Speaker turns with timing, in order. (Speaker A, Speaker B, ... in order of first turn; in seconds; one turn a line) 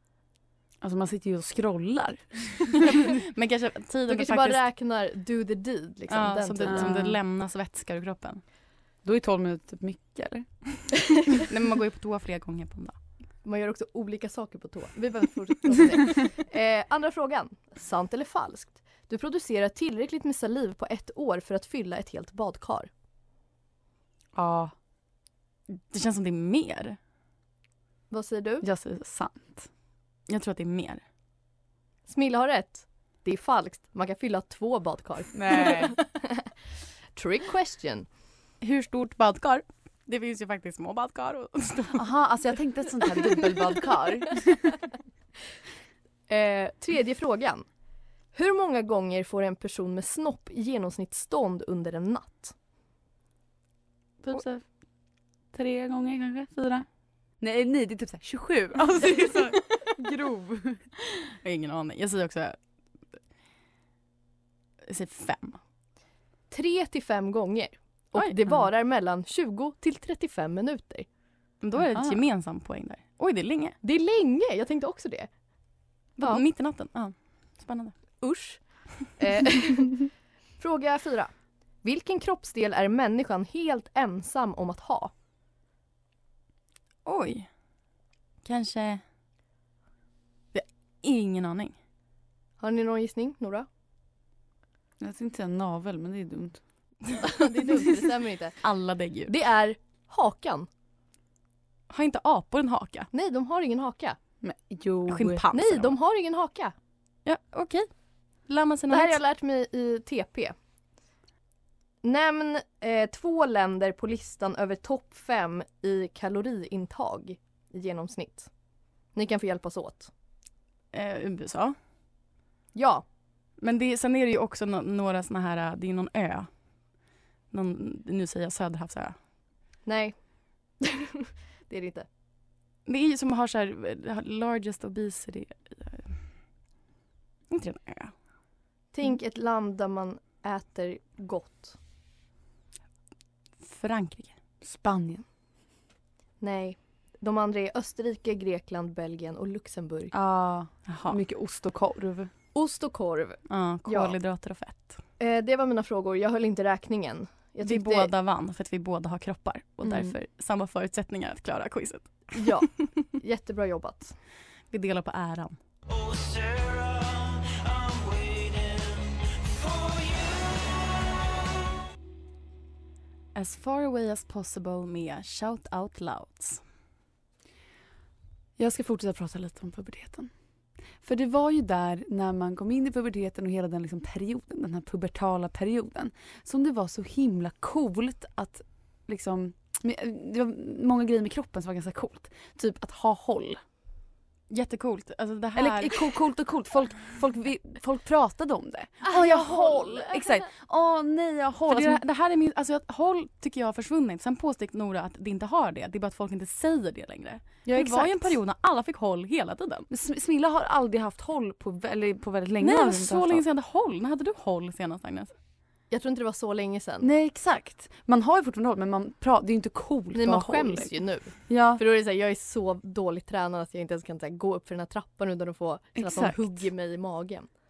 Speaker A: 0.8-2.8
Speaker B: 2.8-4.6
Speaker C: 4.1-6.9
Speaker B: 6.1-8.4
Speaker A: 6.6-7.2
Speaker A: 9.0-10.7
Speaker B: 11.5-13.0
Speaker C: 13.4-22.9
Speaker A: 24.4-24.7
Speaker B: 25.7-27.0
Speaker C: 28.1-28.7
Speaker A: 28.6-29.7
Speaker B: 30.3-31.0
Speaker C: 32.1-36.5
Speaker A: 35.3-36.0
Speaker C: 37.2-38.1
Speaker B: 38.6-42.0
Speaker A: 42.0-44.8
Speaker C: 46.3-47.7
Speaker C: 48.3-52.5
Speaker A: 54.2-54.6
Speaker A: 55.5-56.9
Speaker A: 57.4-60.9
Speaker B: 61.4-62.6
Speaker B: 64.9-65.6
Speaker C: 66.5-71.1
Speaker B: 71.6-73.8
Speaker A: 71.9-72.2
Speaker C: 73.8-75.3
Speaker B: 76.2-78.0
Speaker C: 78.2-80.1
Speaker C: 80.6-81.3
Speaker C: 81.8-85.1
Speaker B: 87.1-87.5
Speaker B: 88.4-89.0
Speaker B: 90.5-91.8
Speaker C: 92.6-93.7
Speaker A: 95.0-96.6
Speaker C: 97.2-98.6
Speaker B: 98.6-99.3
Speaker C: 99.3-100.7
Speaker B: 101.9-103.1
Speaker C: 103.1-104.2
Speaker A: 104.4-105.4
Speaker B: 105.1-106.0
Speaker C: 105.5-106.7
Speaker B: 107.2-107.9
Speaker B: 108.5-109.2
Speaker C: 108.9-110.5
Speaker C: 112.0-118.5
Speaker C: 119.2-120.1
Speaker B: 120.9-121.8
Speaker C: 122.8-123.0
Speaker B: 123.6-126.5
Speaker B: 127.5-129.2
Speaker C: 129.9-130.2
Speaker C: 130.8-132.1
Speaker B: 132.9-136.2
Speaker B: 137.5-138.1
Speaker C: 138.9-141.8
Speaker B: 143.6-144.4
Speaker A: 144.6-145.2
Speaker C: 146.4-150.1
Speaker A: 150.1-152.3
Speaker B: 150.9-151.2
Speaker C: 152.5-154.2
Speaker B: 153.5-155.0
Speaker C: 155.2-158.1
Speaker B: 157.6-162.5
Speaker A: 159.8-160.2
Speaker C: 162.3-164.2
Speaker B: 164.7-165.6
Speaker B: 173.4-176.6
Speaker A: 178.6-180.3
Speaker A: 181.0-193.6
Speaker B: 194.5-196.0
Speaker A: 195.6-202.0
Speaker B: 201.7-209.9
Speaker A: 207.7-208.4
Speaker A: 209.9-213.4
Speaker B: 212.6-215.3
Speaker C: 215.9-217.1
Speaker A: 217.0-220.9
Speaker C: 220.1-227.5
Speaker A: 221.5-221.8
Speaker A: 226.0-226.6